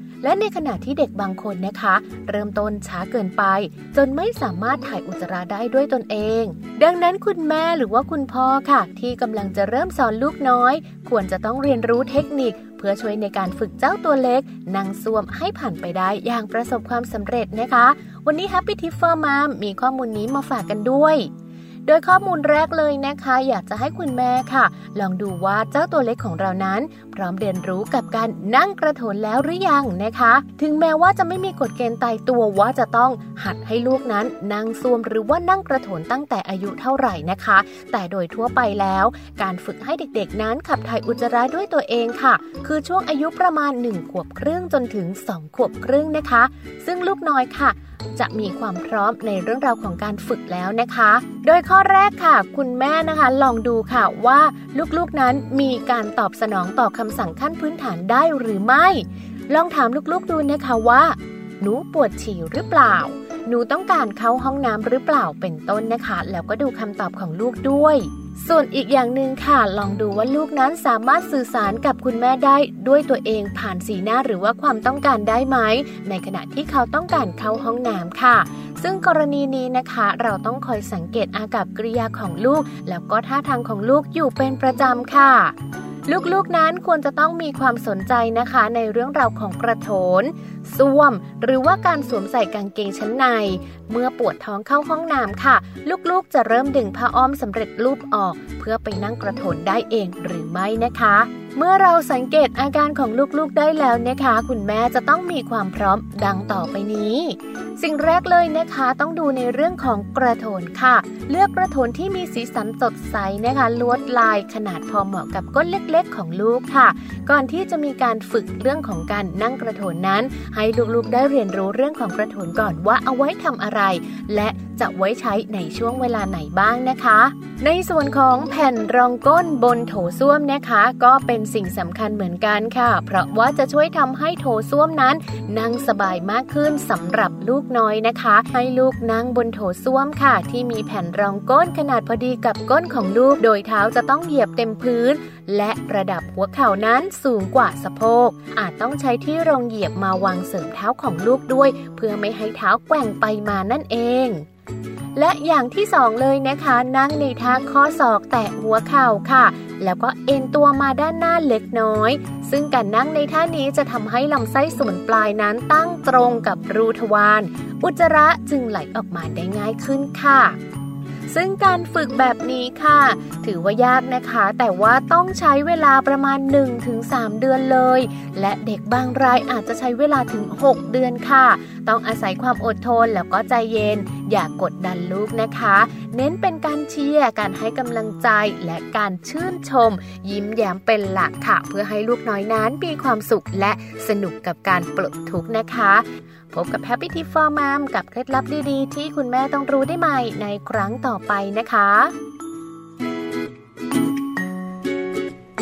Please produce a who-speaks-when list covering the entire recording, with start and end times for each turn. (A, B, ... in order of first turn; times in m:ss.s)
0:00.2-0:21.3 A
0:21.8-1:25.5 A
1:26.1-2:34.4 A
2:35.2-2:50.6 A
2:51.3-3:22.1 A